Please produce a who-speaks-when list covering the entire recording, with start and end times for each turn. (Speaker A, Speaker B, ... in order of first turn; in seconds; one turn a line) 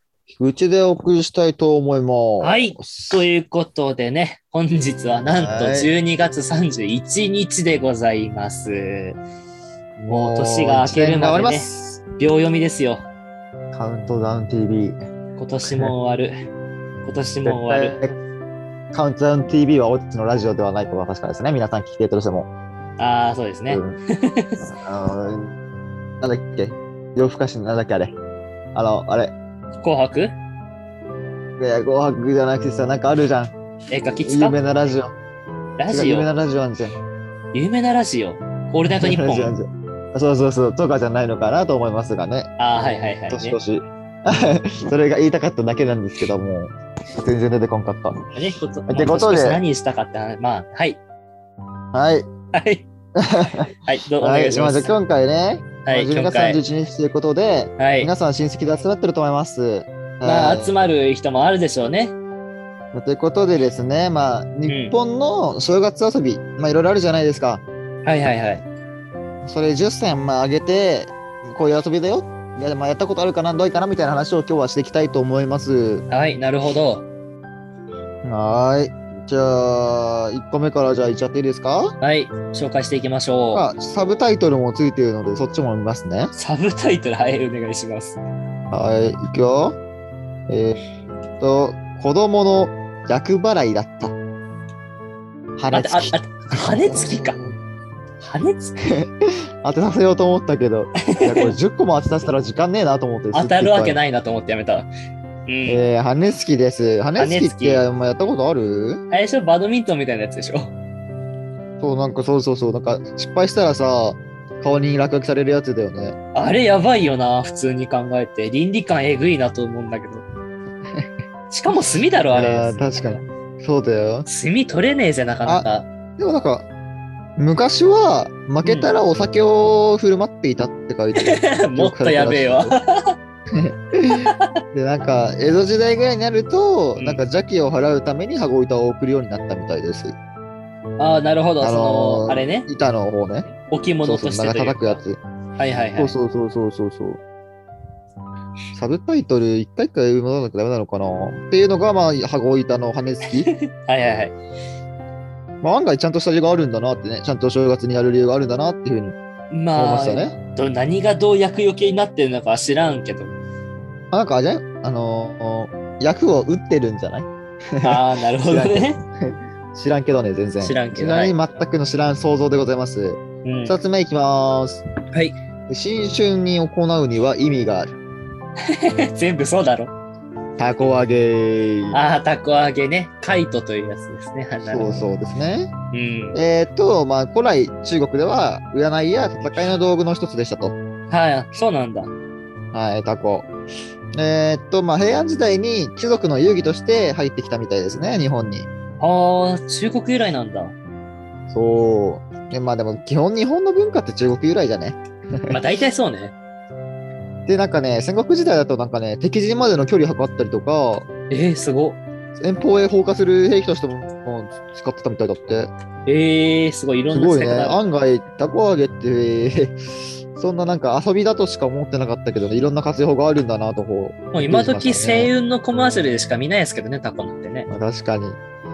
Speaker A: 0.3-3.2
Speaker B: 2.4-9.2
Speaker A: 5.3-5.9
Speaker A: 10.0-12.0
Speaker B: 10.1-13.1
Speaker A: 13.7-15.0
Speaker B: 15.4-16.3
Speaker A: 15.7-15.9
Speaker B: 17.0-17.9
Speaker A: 17.4-18.1
Speaker A: 18.9-22.5
Speaker B: 23.0-24.6
Speaker A: 23.7-24.0
Speaker A: 24.6-25.6
Speaker A: 26.2-28.1
Speaker A: 28.7-29.3
Speaker B: 29.8-30.3
Speaker A: 31.6-33.5
Speaker B: 33.9-34.6
Speaker A: 34.2-35.1
Speaker B: 35.8-36.3
Speaker A: 35.9-37.0
Speaker B: 37.5-39.5
Speaker A: 38.9-42.5
Speaker B: 42.6-43.6
Speaker A: 43.3-48.2
Speaker B: 48.3-51.0
Speaker A: 48.9-49.6
Speaker A: 51.9-52.3
Speaker B: 52.5-52.9
Speaker A: 53.2-60.7
Speaker B: 53.8-54.9
Speaker B: 55.8-56.6
Speaker B: 57.8-58.1
Speaker B: 60.2-62.1
Speaker A: 62.9-67.6
Speaker B: 64.7-64.9
Speaker B: 68.0-68.7
Speaker A: 69.4-76.0
Speaker B: 76.1-77.0
Speaker A: 78.2-81.9
Speaker B: 82.0-83.7
Speaker A: 83.5-86.3
Speaker B: 86.3-88.2
Speaker A: 88.7-89.8
Speaker A: 90.5-90.8
Speaker A: 91.4-94.1
Speaker A: 95.6-97.5
Speaker B: 95.7-97.4
Speaker B: 98.2-98.8
Speaker A: 98.8-99.1
Speaker A: 99.6-104.0
Speaker B: 101.1-101.5
Speaker B: 103.3-104.9
Speaker B: 105.5-105.9
Speaker A: 105.7-109.0
Speaker B: 107.2-107.8
Speaker B: 109.1-110.7
Speaker A: 111.8-116.2
Speaker B: 116.3-120.2
Speaker B: 121.5-123.1
Speaker A: 122.3-124.3
Speaker B: 124.3-125.8
Speaker A: 125.5-126.7
Speaker A: 127.4-132.8
Speaker B: 128.6-128.9
Speaker B: 131.2-133.1
Speaker A: 133.5-140.2
Speaker B: 141.0-142.7
Speaker A: 141.6-145.2
Speaker B: 143.6-145.0
Speaker B: 145.6-146.1
Speaker A: 146.0-147.2
Speaker A: 148.7-153.5
Speaker B: 153.3-154.3
Speaker A: 155.6-159.2
Speaker B: 159.5-163.3
Speaker A: 159.7-160.3
Speaker A: 164.1-174.8
Speaker B: 167.8-169.0
Speaker B: 170.6-171.4
Speaker B: 173.4-173.8
Speaker A: 175.7-178.0
Speaker B: 178.7-179.9
Speaker A: 180.6-182.0
Speaker B: 181.9-185.1
Speaker A: 184.7-185.7
Speaker B: 185.9-186.4
Speaker A: 186.3-190.8
Speaker B: 191.1-192.1
Speaker A: 192.7-193.5
Speaker A: 194.1-198.7
Speaker B: 199.0-200.7
Speaker A: 201.5-205.6
Speaker B: 205.5-206.3
Speaker A: 207.5-211.1
Speaker B: 211.3-212.0
Speaker A: 212.3-215.7
Speaker B: 216.1-217.8
Speaker A: 217.1-225.3
Speaker B: 224.3-227.7
Speaker A: 227.7-228.4